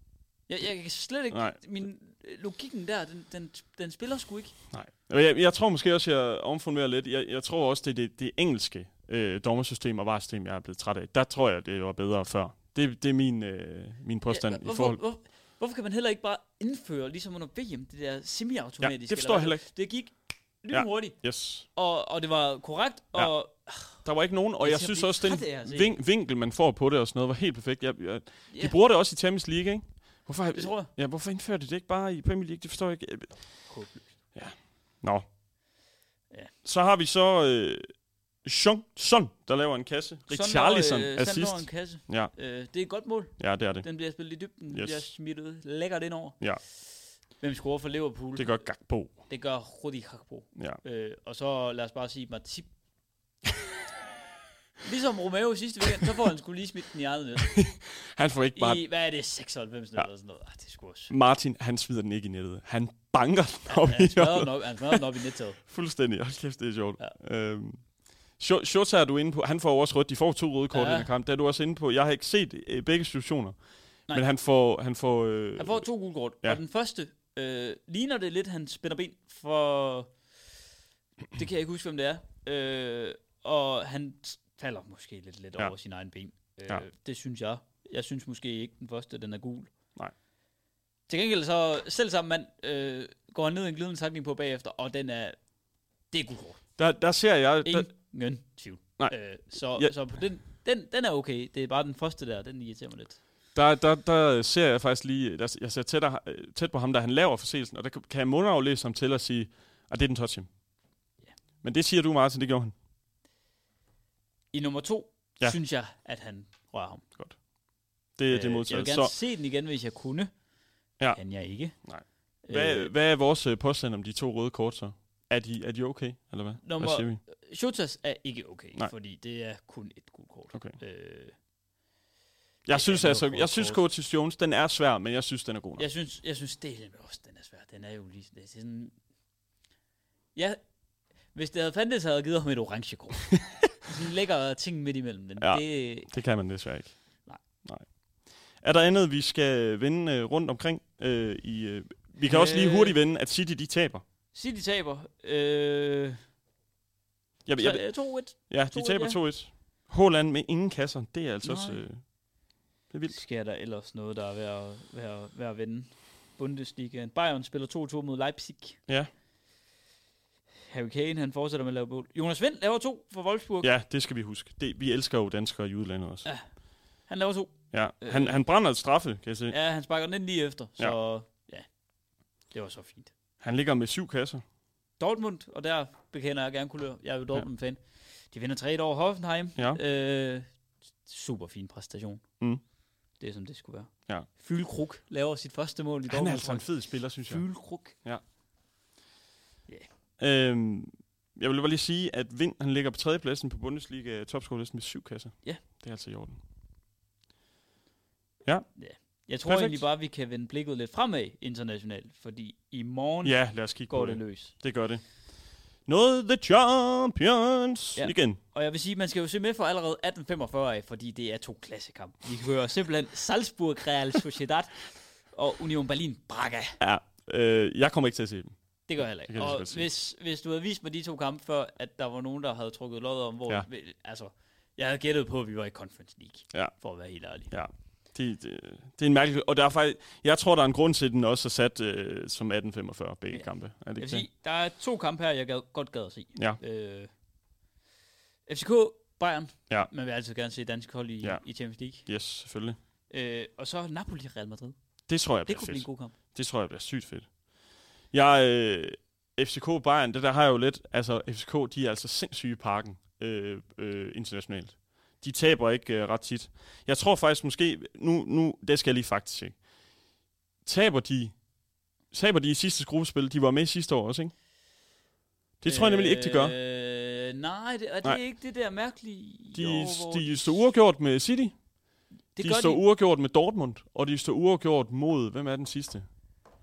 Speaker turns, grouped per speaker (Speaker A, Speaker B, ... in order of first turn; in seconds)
Speaker A: 0.5-4.5, 14.3-21.2, 21.7-24.0, 24.6-26.0, 30.5-30.9, 33.7-34.2, 40.3-46.5, 47.4-48.7, 49.3-52.7, 54.8-57.6, 58.5-61.1, 63.7-65.6, 70.7-71.1, 75.6-80.1, 81.3-89.7, 91.1-95.4, 96.1-96.6, 97.7-103.2, 114.5-117.0, 118.3-120.3, 121.1-121.8, 122.4-122.9, 126.6-131.3, 132.7-133.8, 135.8-138.9, 141.3-146.1, 152.2-153.0, 154.3-156.2, 157.6-159.2, 161.4-161.8, 163.1-168.8, 170.7-173.7, 177.1-178.4, 179.5-181.7, 182.5-183.1, 185.0-187.8, 188.3-190.5, 191.1-192.2, 193.2-196.7, 197.2-198.0, 208.8-214.5, 218.0-226.8, 228.9-237.5, 243.3-247.1, 248.5-252.1, 253.1-254.8, 255.5-256.1, 275.6-280.6, 282.4-282.8
Speaker B: 1.3-1.6, 4.7-15.0, 18.8-19.7, 20.7-21.7, 23.9-33.4, 34.4-35.3, 36.6-37.9, 38.4-42.3, 43.4-43.9, 44.7-45.1, 48.4-49.1, 57.4-58.8, 61.1-65.0, 65.6-67.8, 68.4-73.6, 74.1-75.9, 96.8-97.9, 99.0-99.9, 103.5-110.5, 111.6-112.7, 118.2-119.1, 121.0-127.2, 130.5-130.8, 132.7-135.9, 145.4-147.9, 148.5-154.0, 157.5-162.0, 162.9-163.2, 173.6-176.3, 177.7-179.6, 183.4-184.4, 196.1-198.2, 200.2-206.4, 209.4-209.8, 213.2-215.0, 215.9-218.4, 226.8-229.9, 237.5-244.3, 252.1-252.8, 255.1-257.3, 258.1-269.6, 270.6-271.4, 272.1-274.3, 275.6-276.6, 279.5-281.6, 282.4-286.1